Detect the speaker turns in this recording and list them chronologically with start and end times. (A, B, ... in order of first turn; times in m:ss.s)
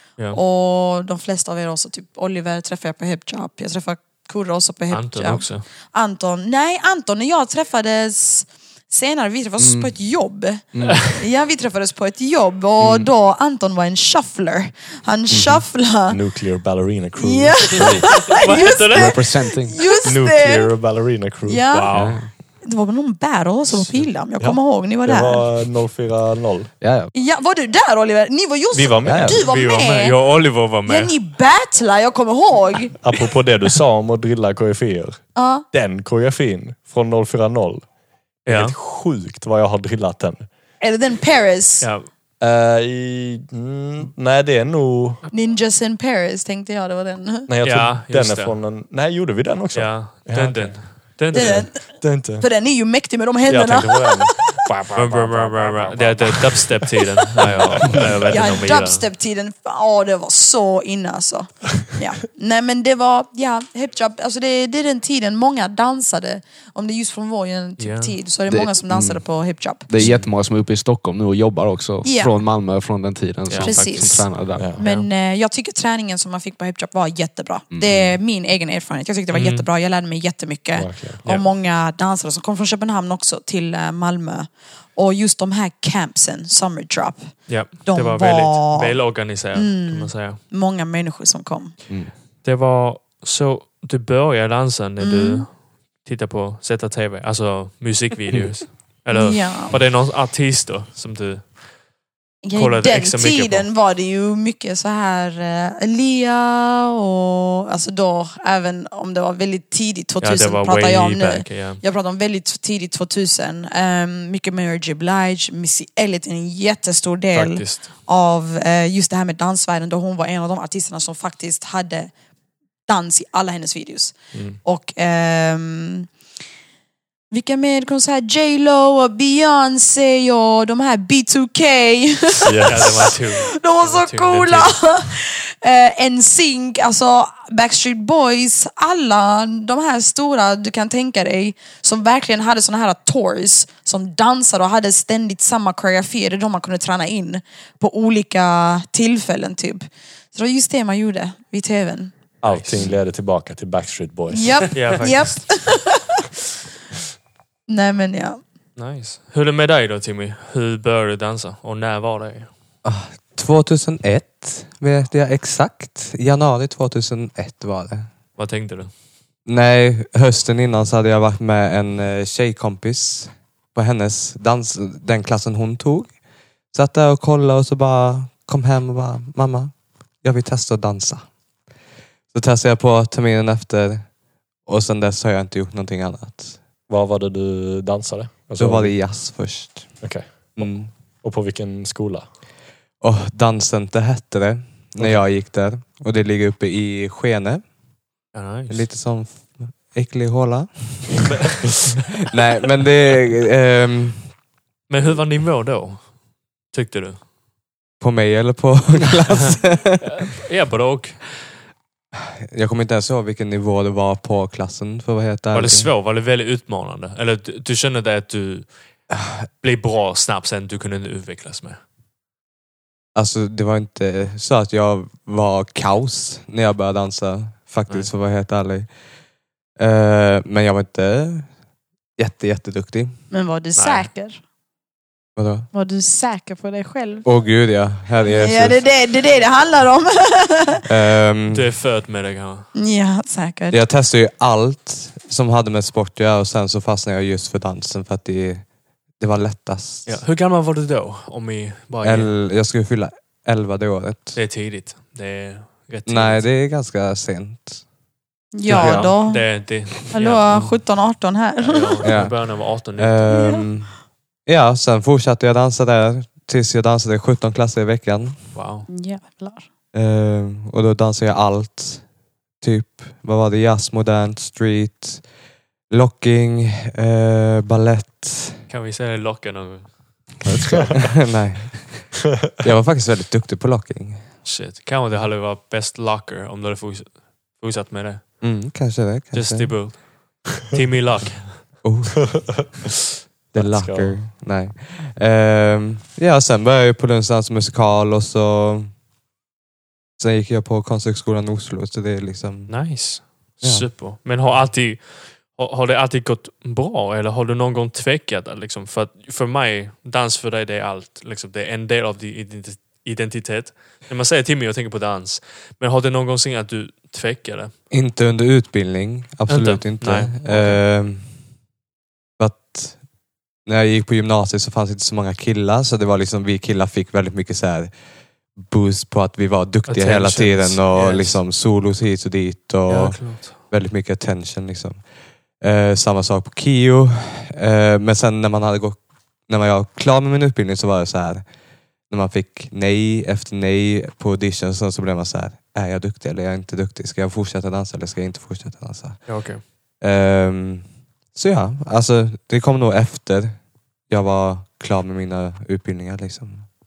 0:00.3-0:16.2 A
0:04.9-0:05.6 B
0:09.6-0:09.9 C
0:10.7-0:11.2 C
0:12.8-0:13.1 C
0:15.3-0:15.6 C
0:16.1-0:18.2 D
0:17.2-0:20.7 A
0:18.1-0:19.2 B
0:18.9-0:19.8 C
0:20.0-0:21.8 D
0:21.4-0:25.4 A
0:21.7-0:22.2 B
0:21.9-0:22.3 C
0:24.4-0:26.7 D
0:26.8-0:27.1 C
0:27.1-0:33.0 A
0:28.7-0:29.4 D
0:29.0-0:29.4 C
0:29.4-0:31.1 B
0:33.0-0:37.8 D
0:35.3-0:35.6 A
0:38.4-0:38.7 B
0:38.4-0:40.5 D
0:40.8-0:41.9 A
0:41.8-0:42.1 B
0:42.4-0:45.2 D
0:45.3-0:47.5 A
0:47.5-0:52.5 D
0:47.6-0:48.6 B
0:49.7-0:51.7 B
0:51.3-0:54.6 A
0:53.5-0:56.9 D
0:54.9-0:59.1 B
0:57.4-0:58.4 D
0:58.3-1:09.9 A
1:07.8-1:08.2 B
1:08.5-1:14.7 C
1:10.0-1:10.2 B
1:12.0-1:12.3 A
1:13.5-1:15.1 B
1:13.6-1:29.0 A
1:14.5-1:14.8 D
1:17.7-1:18.2 C
1:19.3-1:19.7 B
1:20.7-1:21.2 D
1:27.5-1:30.4 B
1:29.5-1:31.8 A
1:32.4-1:41.6 B
1:35.0-1:35.5 A
1:39.1-1:39.8 A
1:42.4-2:02.1 A
1:42.5-1:43.7 B
1:50.2-1:51.8 B
1:57.3-1:57.9 B
2:02.9-2:06.1 A
2:04.3-2:04.6 D
2:07.3-2:32.1 A
2:12.4-2:13.1 D
2:12.6-2:14.8 B
2:32.4-2:35.0 D
2:32.4-2:32.8 B
2:34.3-2:36.2 A
2:34.7-2:35.6 B
2:37.7-2:38.4 A
2:38.8-2:42.5 B
2:42.8-2:48.1 E
2:48.4-2:48.9 B
2:49.4-2:56.1 E
2:56.7-3:01.3 E
3:02.3-3:04.1 E
3:04.6-3:06.6 E
3:06.9-3:09.0 D
3:08.6-3:10.0 E
3:10.0-3:12.3 D
3:10.6-3:10.9 E
3:13.0-3:17.6 E
3:15.0-3:15.2 D
3:18.3-3:18.9 B
3:18.7-3:21.4 E
3:22.2-3:24.3 E
3:24.9-3:26.2 B
3:26.7-3:27.2 B
3:28.0-3:30.1 E
3:30.0-3:31.2 B
3:32.5-3:35.9 E
3:35.5-3:38.8 B
3:39.6-3:41.8 B
3:43.1-3:48.9 E
3:49.8-3:51.5 E
3:52.2-3:53.1 E
3:53.3-3:54.4 A
3:53.7-3:54.1 B
3:55.4-3:55.7 E
3:55.7-3:57.2 A
3:57.2-3:58.8 E
3:58.2-4:00.9 A
4:00.9-4:01.7 E
4:01.5-4:02.7 B
4:02.7-4:03.8 A
4:03.7-4:08.7 E
4:09.2-4:10.2 E
4:10.0-4:12.4 B
4:12.0-4:14.4 E
4:14.4-4:16.5 B
4:16.0-4:17.8 E
4:18.5-4:22.0 A
4:18.7-4:19.1 E
4:18.7-4:21.0 B
4:21.6-4:23.3 B
4:22.0-4:28.5 E
4:23.3-4:23.7 A
4:28.5-4:28.9 B
4:28.9-4:29.6 A
4:29.9-4:32.0 E
4:32.6-4:35.2 E
4:35.9-4:38.7 E
4:38.7-4:40.4 B
4:40.7-4:41.0 D
4:41.2-4:44.3 E
4:44.4-4:48.5 B
4:48.4-4:50.0 E
4:49.3-4:51.6 B
4:51.8-4:52.6 E
4:53.5-4:58.9 E
4:53.6-4:54.2 D
5:00.2-5:03.9 E
5:02.7-5:17.7 B
5:17.9-5:21.3 E
5:19.5-5:20.8 B
5:22.4-5:23.0 E
5:23.6-5:27.9 E
5:28.6-5:35.1 E
5:29.8-5:31.4 B
5:32.9-5:33.6 B
5:35.6-5:41.4 E
5:42.1-5:56.7 E
5:49.2-5:49.6 B